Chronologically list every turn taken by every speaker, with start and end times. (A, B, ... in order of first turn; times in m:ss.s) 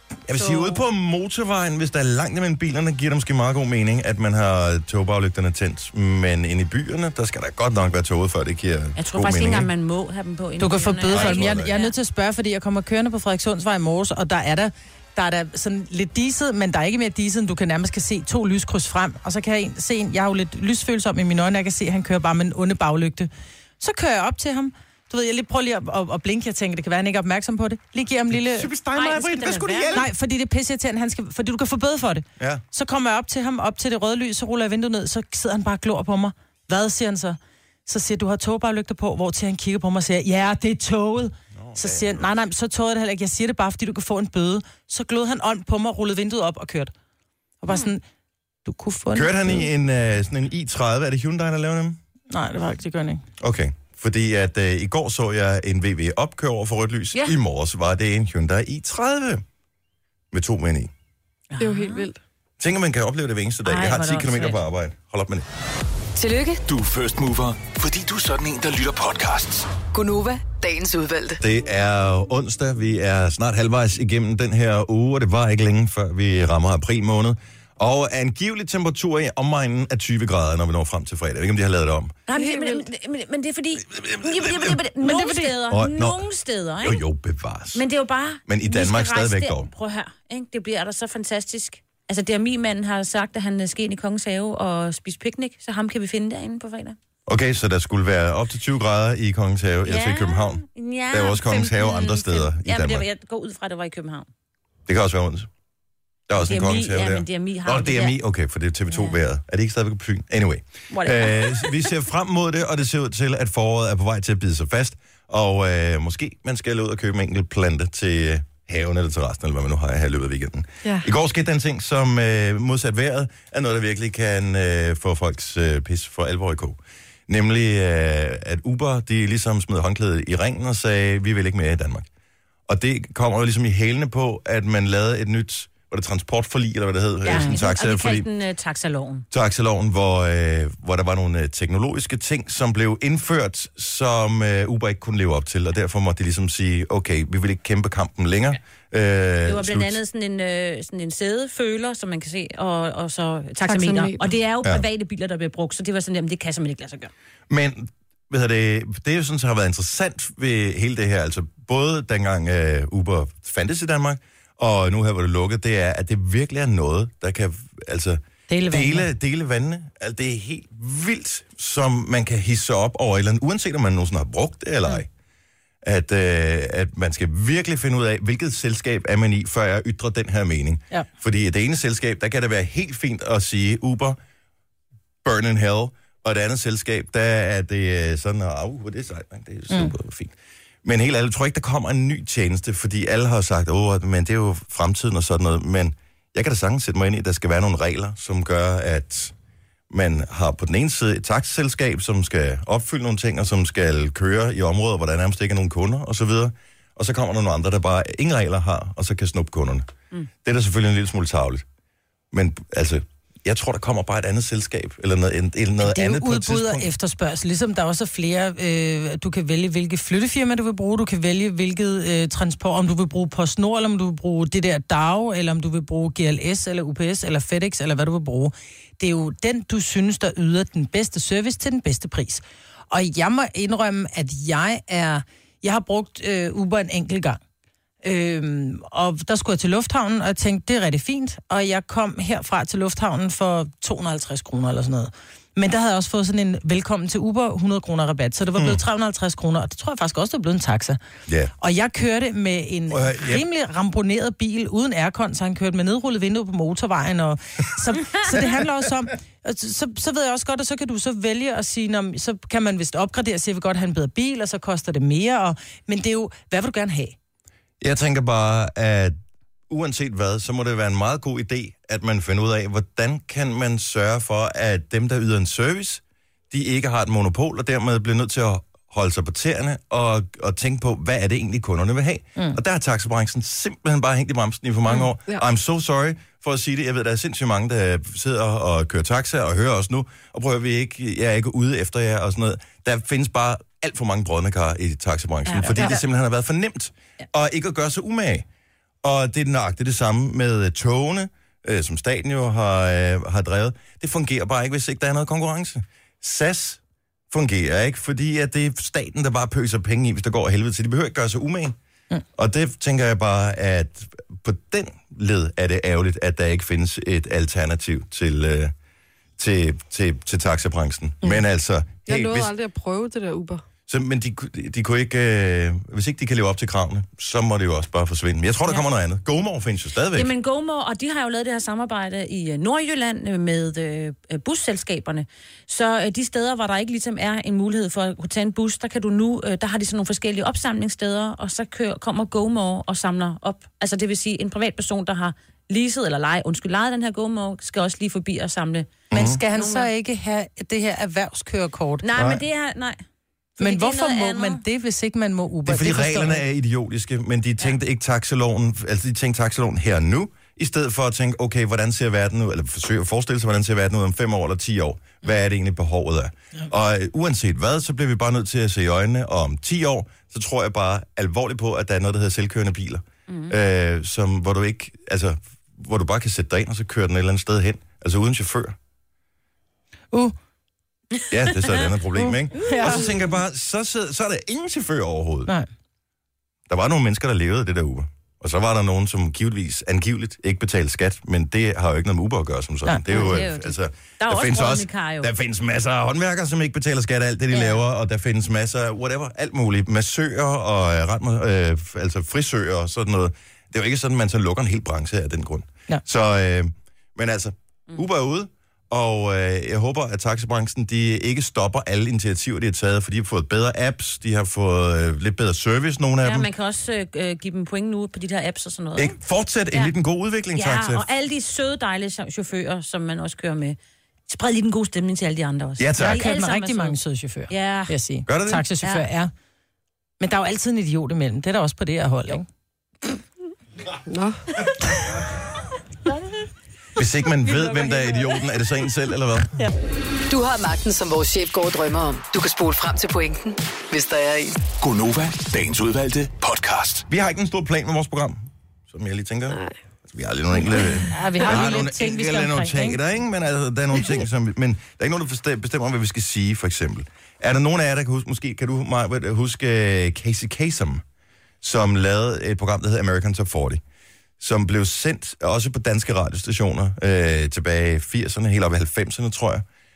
0:00.3-0:09.7 A
0:00.4-0:00.8 B
0:09.0-0:11.9 B
0:10.6-0:28.7 C
0:11.1-0:11.7 A
0:28.3-0:30.1 A
0:28.9-0:30.0 B
0:29.9-0:46.9 C
0:32.4-0:32.6 A
0:41.5-0:42.2 A
0:47.6-0:48.0 C
0:48.6-0:49.7 C
0:49.1-0:52.0 A
0:52.3-0:53.2 C
0:53.4-0:59.4 A
1:00.3-1:00.9 A
1:01.5-1:02.1 B
1:01.6-1:02.2 D
1:02.6-1:05.4 A
1:03.6-1:04.6 B
1:06.2-1:06.6 E
1:06.6-1:09.7 F
1:09.8-1:11.4 E
1:11.4-1:22.2 A
1:22.3-1:27.0 B
1:22.3-1:22.8 D
1:24.0-1:24.8 A
1:25.0-1:25.6 C
1:25.7-1:26.2 A
1:26.8-1:27.8 A
1:27.7-1:37.0 B
1:28.5-1:29.7 A
1:37.3-1:43.0 A
1:39.8-1:44.3 B
1:44.9-1:45.5 A
1:46.3-2:12.1 A
1:46.4-1:48.1 B
1:48.9-1:49.2 B
1:50.9-1:51.9 B
2:12.7-2:18.3 A
2:17.2-2:19.2 B
2:19.3-2:30.0 A
2:29.4-2:37.1 B
2:33.6-2:34.3 D
2:37.5-2:55.1 A
2:48.5-2:49.1 C
2:55.8-3:04.2 A
3:05.2-3:19.3 A
3:19.9-3:29.9 A
3:30.4-3:31.6 A
3:32.3-3:36.9 A
3:35.8-3:57.4 C
3:58.0-4:11.0 C
4:11.3-4:11.5 A
4:11.6-4:27.2 C
4:12.9-4:13.4 A
4:27.8-4:29.1 A
4:29.7-4:58.4 A
4:55.5-4:56.0 B
4:59.0-5:06.8 A
5:07.3-5:11.8 A
5:12.4-5:18.7 A
5:19.4-5:22.5 A
5:22.1-5:23.6 D
5:23.9-5:30.3 A
5:30.1-5:49.9 B
5:49.1-5:49.4 A
5:49.1-5:52.0 C
5:52.0-5:53.0 B
5:52.2-5:52.4 A
5:53.6-5:54.6 B
5:53.6-5:56.4 C
5:55.6-6:18.8 A
6:13.3-6:13.5 B
6:21.2-6:21.7 B
6:21.3-6:25.5 A
6:22.2-6:23.0 C
6:22.6-6:23.0 D
6:26.7-6:56.5 A
6:32.8-6:33.2 C
6:33.1-6:35.3 B
6:37.5-6:37.8 B
6:56.2-6:59.2 B
6:59.0-7:01.0 A
7:00.5-7:03.8 B
7:04.3-7:07.0 B
7:05.8-7:06.2 A
7:06.0-7:09.3 C
7:07.5-7:07.9 B
7:08.3-7:08.6 A
7:08.8-7:09.1 B
7:10.2-7:12.5 C
7:14.1-7:15.0 D
7:17.0-7:19.5 A
7:17.4-7:18.2 B
7:20.3-7:24.6 E
7:24.8-7:27.0 F
7:27.1-7:41.0 A
7:30.6-7:33.0 C
7:41.6-7:43.8 A
7:44.4-7:49.6 A